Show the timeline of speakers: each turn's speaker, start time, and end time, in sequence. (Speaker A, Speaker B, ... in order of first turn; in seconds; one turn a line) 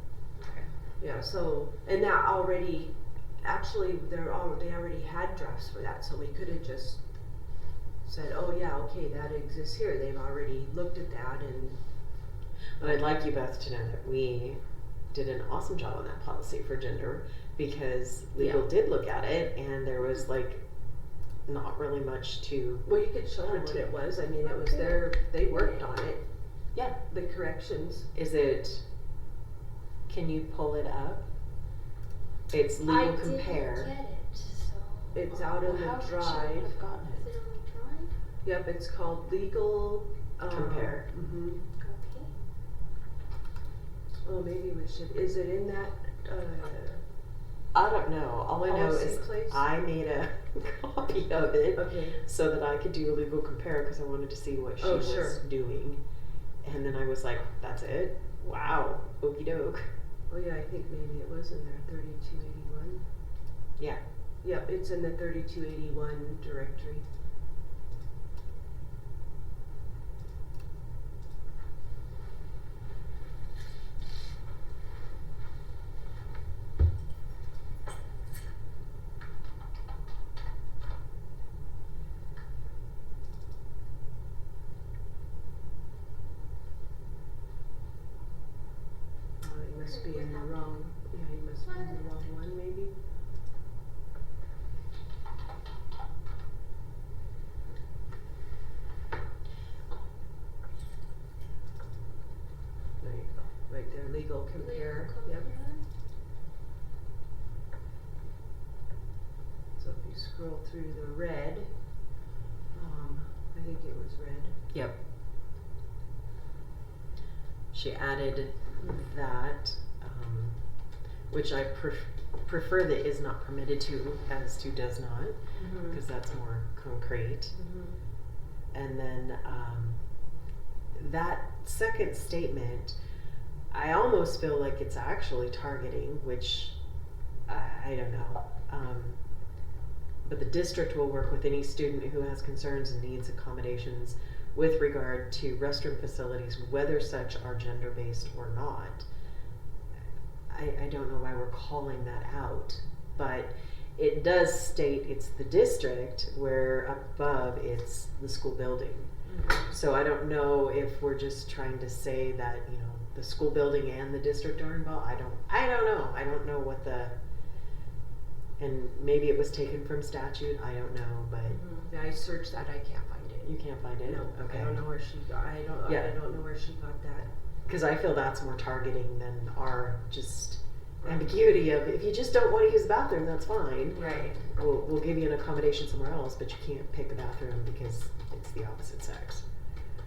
Speaker A: 0.4-0.7
Speaker B: 1.0-7.0
Speaker B: 8.0-11.8
Speaker C: 12.8-20.7
Speaker B: 12.8-13.1
Speaker B: 18.4-18.6
Speaker C: 21.4-22.9
Speaker B: 22.9-26.2
Speaker C: 23.4-23.9
Speaker B: 27.0-28.1
Speaker C: 28.1-28.8
Speaker C: 30.1-31.3
Speaker C: 32.5-34.0
Speaker D: 32.9-35.9
Speaker B: 35.1-36.7
Speaker C: 35.6-37.3
Speaker D: 37.0-38.2
Speaker B: 38.4-41.6
Speaker C: 40.5-41.1
Speaker D: 41.8-42.3
Speaker B: 44.2-47.0
Speaker C: 47.7-56.0
Speaker B: 48.6-49.6
Speaker B: 51.8-52.2
Speaker B: 54.8-55.4
Speaker C: 56.6-59.9
Speaker B: 60.3-63.0
Speaker B: 64.4-67.0
Speaker B: 89.4-92.9
Speaker D: 89.8-90.6
Speaker D: 91.7-92.2
Speaker B: 103.0-105.5
Speaker D: 104.6-105.9
Speaker B: 109.8-111.7
Speaker B: 112.7-114.6
Speaker C: 114.7-115.0
Speaker C: 117.7-120.6
Speaker C: 121.3-127.6
Speaker A: 125.5-126.0
Speaker A: 127.5-128.0
Speaker C: 128.7-130.0
Speaker C: 130.9-133.0
Speaker C: 133.7-136.8
Speaker C: 137.5-139.2
Speaker C: 140.2-149.1
Speaker C: 150.5-167.2
Speaker A: 159.3-159.6
Speaker C: 168.6-171.6
Speaker A: 171.6-171.9
Speaker B: 171.9-177.3
Speaker C: 173.4-174.8
Speaker C: 175.9-176.1
Speaker C: 177.7-189.5
Speaker A: 183.9-184.4